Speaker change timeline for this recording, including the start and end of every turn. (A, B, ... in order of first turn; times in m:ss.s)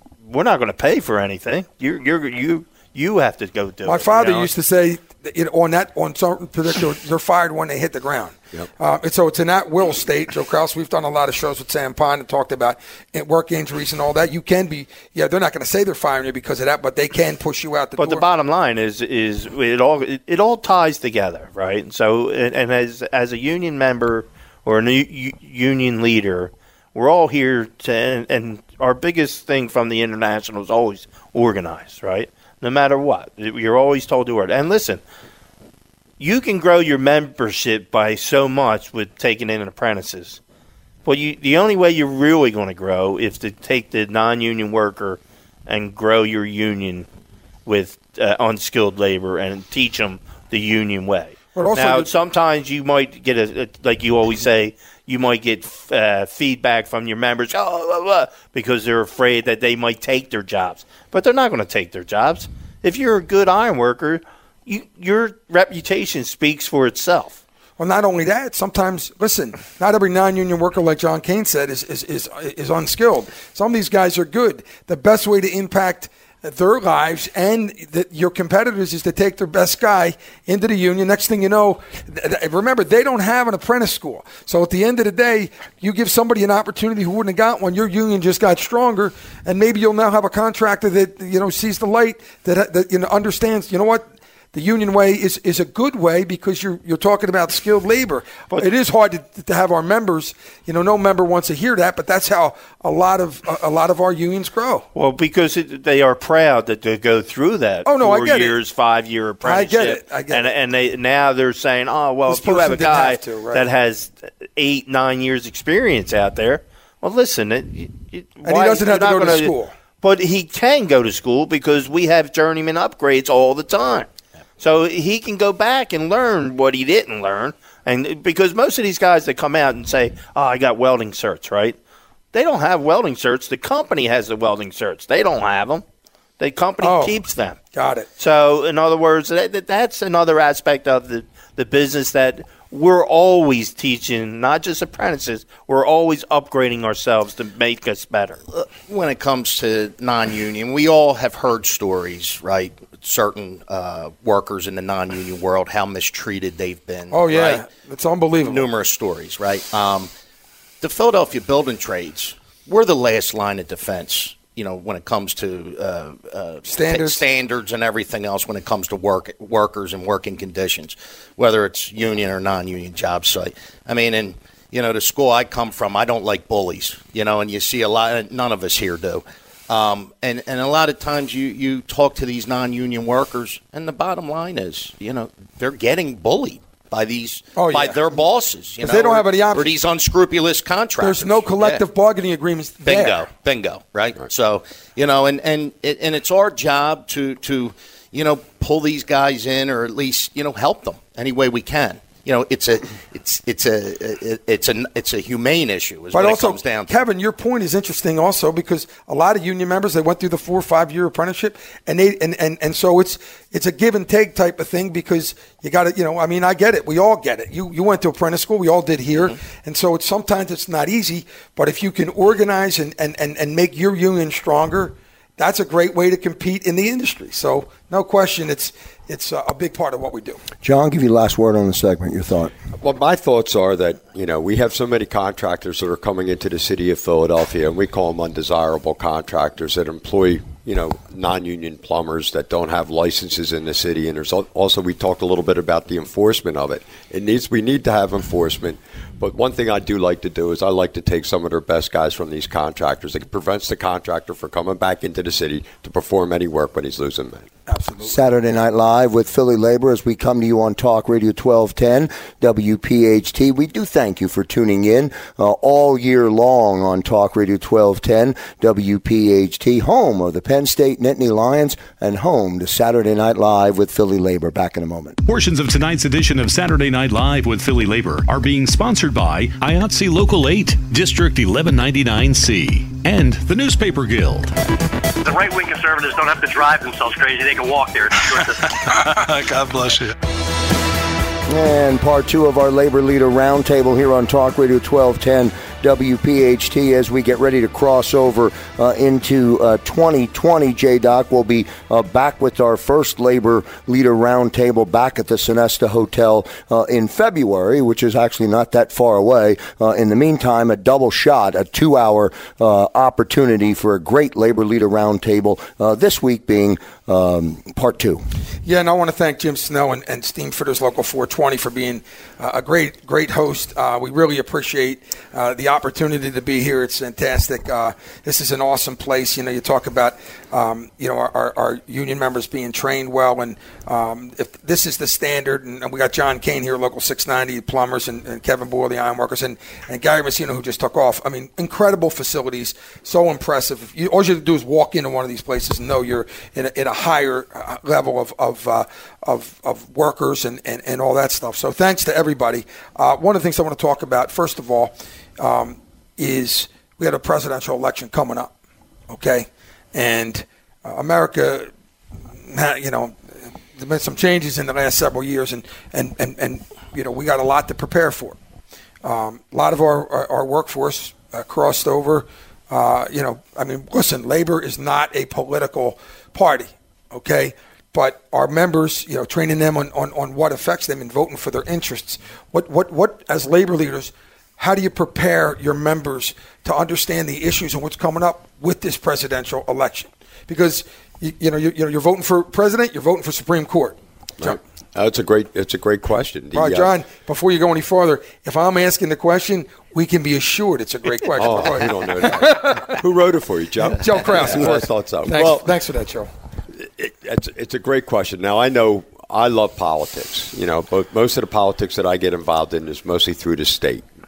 0:00.3-0:04.5 A
0:03.8-0:18.2 B
0:18.0-0:35.0 A
0:36.2-0:40.4 A
0:41.0-0:47.1 A
0:47.6-1:07.4 A
0:51.5-0:52.1 B
1:07.8-1:44.9 B
1:44.9-2:11.8 A
1:47.8-1:48.6 B
1:49.4-1:50.5 B
1:52.3-1:53.6 B
1:58.4-1:59.7 B
2:12.3-2:15.8 A
2:16.4-2:17.6 A
2:16.8-2:17.2 B
2:17.7-2:18.1 B
2:18.2-2:28.4 A
2:28.5-2:37.6 C
2:37.1-2:38.7 B
2:38.4-2:40.1 C
2:40.8-3:11.8 C
2:46.7-2:47.2 B
3:07.6-3:08.0 B
3:08.8-3:09.7 B
3:11.0-3:13.2 B
3:12.8-3:26.9 C
3:26.1-3:50.4 B
3:50.6-3:52.5 D
3:52.8-4:17.5 E
4:17.7-4:18.2 B
4:18.0-4:35.2 D
4:35.2-4:44.5 F
4:45.2-4:48.9 G
4:49.4-4:50.0 F
4:51.5-5:18.2 D
5:18.6-5:58.5 B
5:59.1-6:01.7 B
6:02.4-6:03.2 B
6:03.7-6:08.4 B
6:09.0-6:34.6 B
6:34.4-6:36.9 E
6:36.5-6:43.0 B
6:41.2-6:45.7 E
6:43.8-6:46.3 B
6:46.8-6:54.0 E